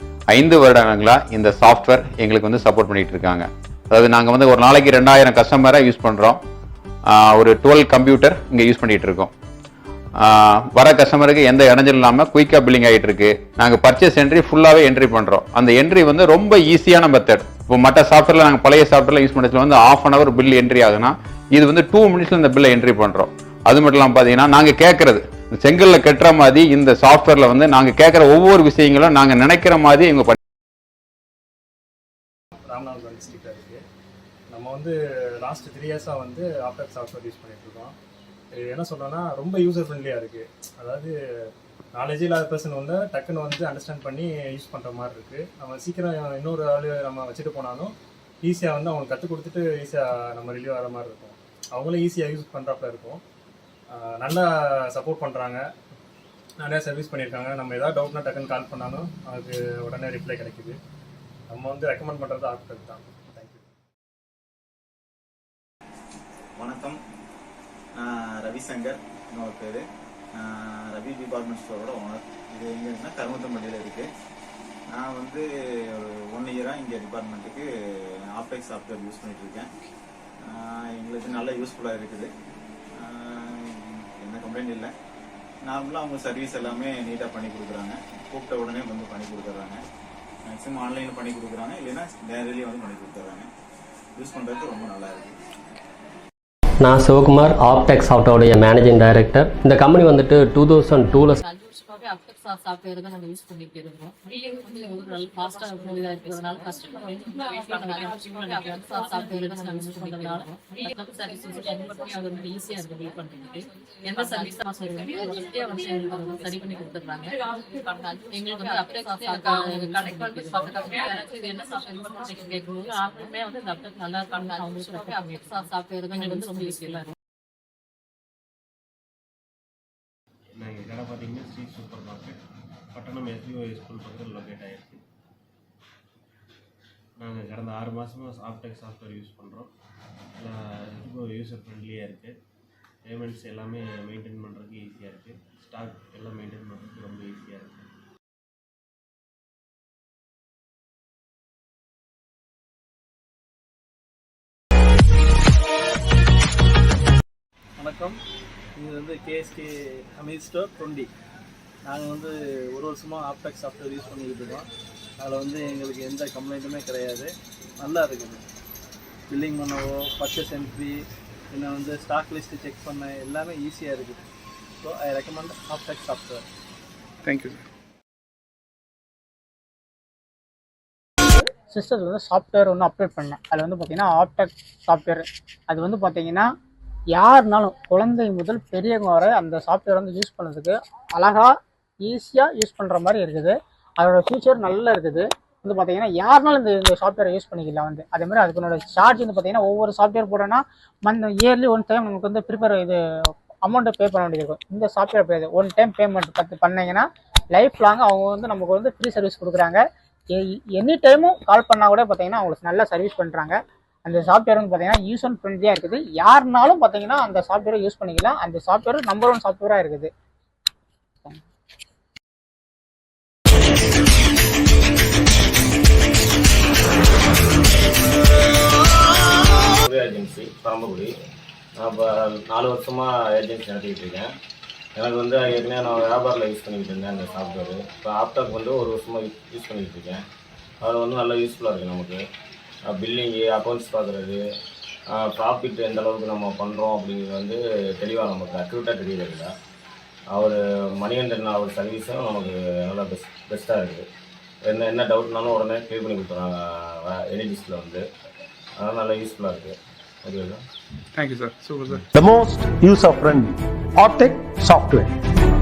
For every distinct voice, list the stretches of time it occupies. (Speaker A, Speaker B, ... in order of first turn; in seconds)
Speaker A: 0.3-6.4, 7.1-9.3, 10.2-30.4
Speaker B: 32.7-33.8, 34.5-38.0, 38.6-41.1, 42.0-53.2, 53.9-55.7, 56.6-60.8, 61.5-63.6
Speaker C: 66.6-67.0, 68.0-69.8, 70.3-74.1, 74.9-77.7, 78.3-79.7, 80.4-82.3, 83.0-84.9, 85.6-89.8, 90.5-93.5, 94.2-95.3
Speaker D: 96.8-98.0, 98.5-101.4, 109.0-110.5
Speaker E: 97.3-99.3, 99.8-101.4, 103.6-104.1, 105.0-106.7, 107.8-110.5, 112.2-113.1, 114.2-115.4, 116.1-117.2, 118.4-120.9, 124.5-127.0
Speaker F: 130.6-132.4, 132.9-135.1, 137.2-139.7, 140.4-142.4, 143.1-147.9
Speaker G: 157.8-158.2, 158.8-161.1, 161.8-164.7, 165.2-168.4, 169.3-174.2, 174.8-176.5
Speaker H: 181.7-186.5, 187.2-191.5, 192.0-203.0, 203.7-209.8, 210.3-220.1
Speaker I: 229.7-231.1, 231.8-234.3, 234.9-240.2, 240.8-242.2, 242.9-244.4, 245.2-249.5, 250.3-254.0, 254.6-258.0, 258.8-260.6
Speaker J: 262.1-265.1